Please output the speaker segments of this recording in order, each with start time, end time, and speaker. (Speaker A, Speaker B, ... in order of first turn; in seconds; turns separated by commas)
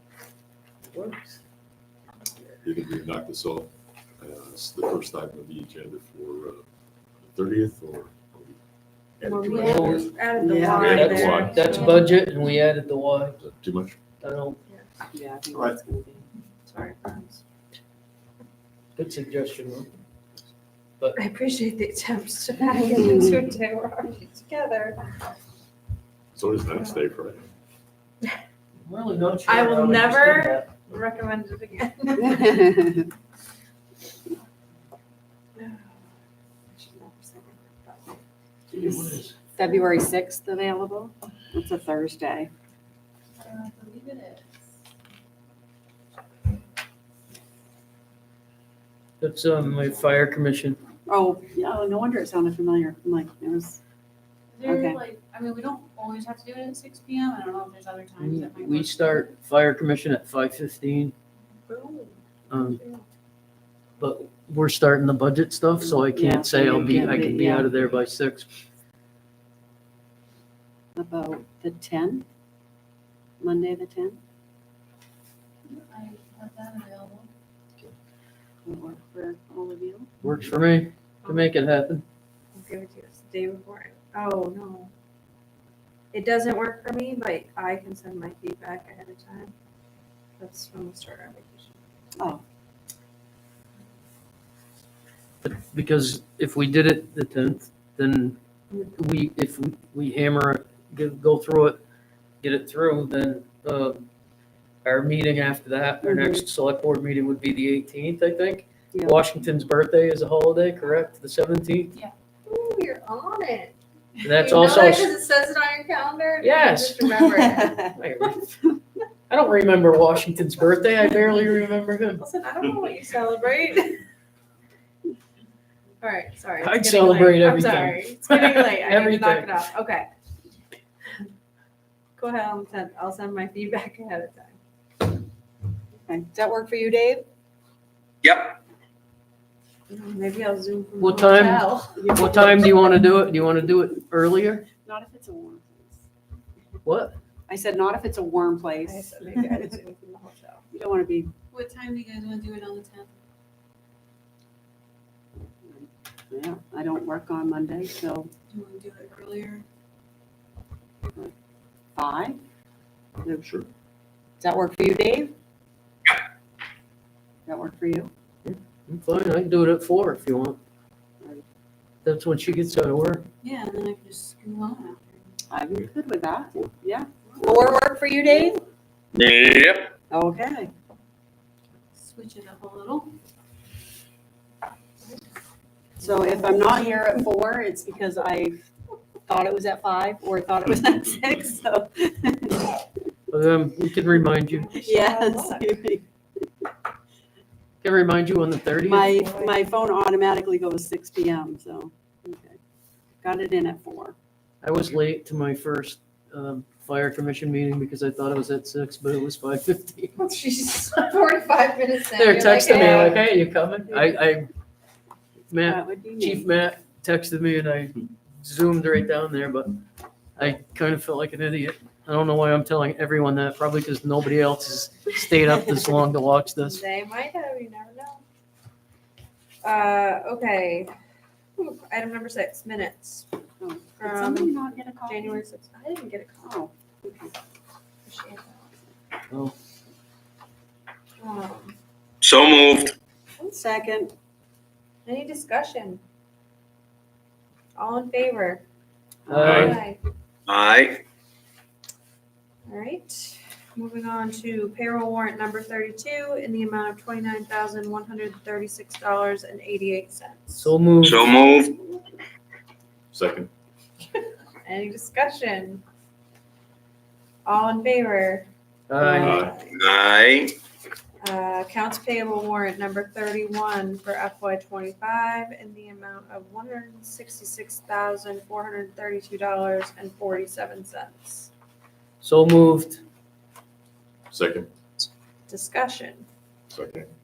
Speaker A: 0.9-1.4, Speaker B: 2.6-6.6, Speaker B: 7.3-8.6, Speaker B: 9.2-10.1, Speaker C: 9.2-12.0, Speaker D: 9.5-10.0, Speaker A: 9.6-10.0, Speaker E: 10.4-11.5, Speaker B: 10.7-12.0, Speaker A: 10.8-13.4, Speaker D: 10.9-12.0, Speaker B: 13.4-14.0, Speaker A: 14.2-14.6, Speaker E: 15.1-16.2, Speaker B: 15.5-15.8, Speaker C: 16.7-17.4, Speaker A: 18.9-19.9, Speaker C: 21.2-25.0, Speaker B: 26.3-27.4, Speaker A: 28.8-30.7, Speaker C: 29.5-32.7, Speaker E: 32.2-33.1, Speaker C: 35.6-36.0, Speaker C: 36.8-38.2, Speaker A: 38.7-39.4, Speaker E: 38.7-42.5, Speaker D: 43.4-44.5, Speaker A: 49.2-50.8, Speaker E: 51.1-53.8, Speaker D: 54.6-59.2, Speaker E: 54.6-55.0, Speaker A: 58.2-61.1, Speaker C: 61.7-62.2, Speaker A: 62.5-62.8, Speaker D: 62.7-63.0, Speaker A: 64.0-68.5, Speaker E: 65.8-67.8, Speaker E: 71.0-72.2, Speaker E: 73.4-74.2, Speaker D: 75.7-77.3, Speaker E: 78.7-80.1, Speaker A: 80.2-82.0, Speaker C: 82.6-84.9, Speaker C: 86.1-89.5, Speaker C: 90.4-91.7, Speaker E: 92.2-92.4, Speaker A: 95.4-98.4, Speaker A: 98.9-101.8, Speaker A: 102.4-104.1, Speaker A: 104.8-111.9, Speaker E: 106.0-106.4, Speaker E: 108.9-109.2, Speaker C: 112.5-113.8, Speaker A: 114.2-115.1, Speaker C: 114.4-117.8, Speaker A: 116.4-118.6, Speaker A: 119.3-122.2, Speaker C: 122.2-124.0, Speaker C: 126.0-130.1, Speaker A: 126.6-129.6, Speaker C: 132.2-134.6, Speaker E: 136.1-137.2, Speaker C: 139.9-142.0, Speaker A: 141.0-144.7, Speaker E: 142.0-143.0, Speaker E: 144.8-146.0, Speaker A: 146.8-147.2, Speaker E: 147.5-149.8, Speaker C: 148.9-150.6, Speaker E: 150.7-151.3, Speaker D: 151.5-153.1, Speaker E: 155.6-158.3, Speaker D: 158.5-159.7, Speaker E: 161.9-162.4, Speaker B: 163.3-163.7, Speaker E: 164.4-165.3, Speaker E: 167.5-168.1, Speaker A: 168.4-170.6, Speaker A: 172.0-173.2, Speaker D: 173.4-175.0, Speaker E: 175.5-178.6, Speaker D: 177.4-178.6, Speaker F: 179.2-179.9, Speaker E: 180.1-180.7, Speaker D: 182.0-183.2, Speaker E: 186.0-188.6, Speaker E: 189.3-192.8, Speaker A: 193.3-194.8, Speaker C: 194.8-195.4, Speaker E: 194.8-196.0, Speaker A: 197.8-199.1, Speaker E: 198.8-202.6, Speaker E: 203.2-204.2, Speaker A: 204.6-210.2, Speaker C: 210.2-213.2, Speaker A: 212.2-214.5, Speaker E: 212.6-213.1, Speaker E: 213.9-214.2, Speaker A: 215.5-219.7, Speaker E: 215.6-216.5, Speaker A: 220.3-226.8, Speaker C: 226.7-228.2, Speaker C: 229.6-230.9, Speaker C: 231.6-233.3, Speaker E: 233.6-235.4, Speaker C: 234.0-234.5, Speaker C: 235.1-236.4, Speaker E: 236.4-237.3, Speaker C: 238.1-238.7, Speaker A: 239.3-239.6, Speaker C: 241.2-241.8, Speaker F: 242.2-242.9, Speaker E: 243.4-244.1, Speaker C: 245.1-246.0, Speaker C: 247.8-248.6, Speaker E: 249.3-249.7, Speaker A: 249.3-249.8, Speaker D: 249.4-249.7, Speaker B: 249.4-249.8, Speaker C: 249.6-250.0, Speaker F: 250.5-250.9, Speaker C: 252.7-261.5, Speaker A: 260.6-261.2, Speaker F: 261.1-261.7, Speaker B: 263.1-263.5, Speaker C: 264.6-265.8, Speaker C: 267.4-268.5, Speaker A: 268.9-269.5, Speaker C: 269.0-269.9, Speaker B: 269.2-269.6, Speaker F: 269.8-270.5, Speaker C: 271.2-281.5, Speaker A: 282.2-283.0, Speaker B: 284.3-284.7, Speaker C: 285.5-286.2, Speaker B: 286.7-287.1